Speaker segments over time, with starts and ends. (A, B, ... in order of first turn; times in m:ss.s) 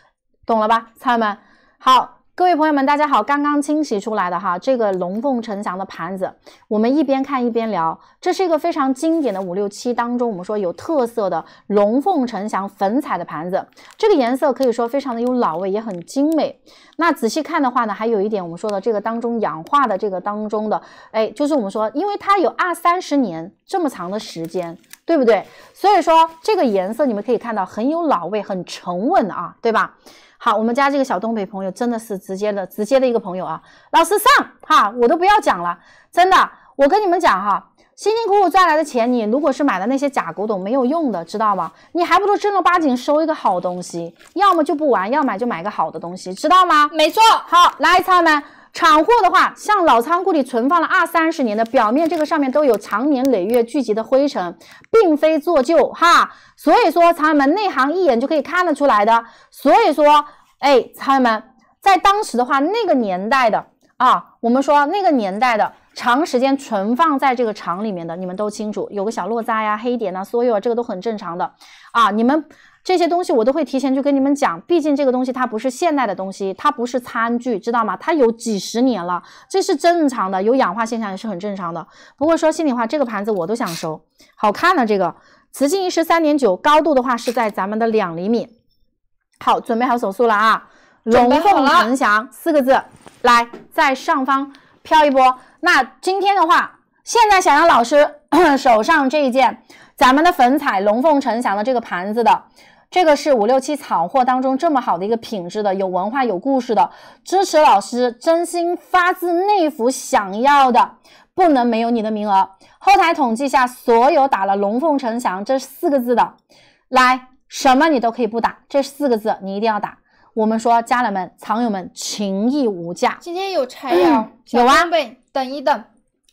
0:00.5-0:46.9 A
0:46.9-0:47.5 B
0:47.5-1:28.5 A
1:29.4-1:56.4 A
1:31.1-1:31.9 B
1:56.9-2:03.2 A
2:03.2-2:05.9 B
2:03.9-2:04.9 A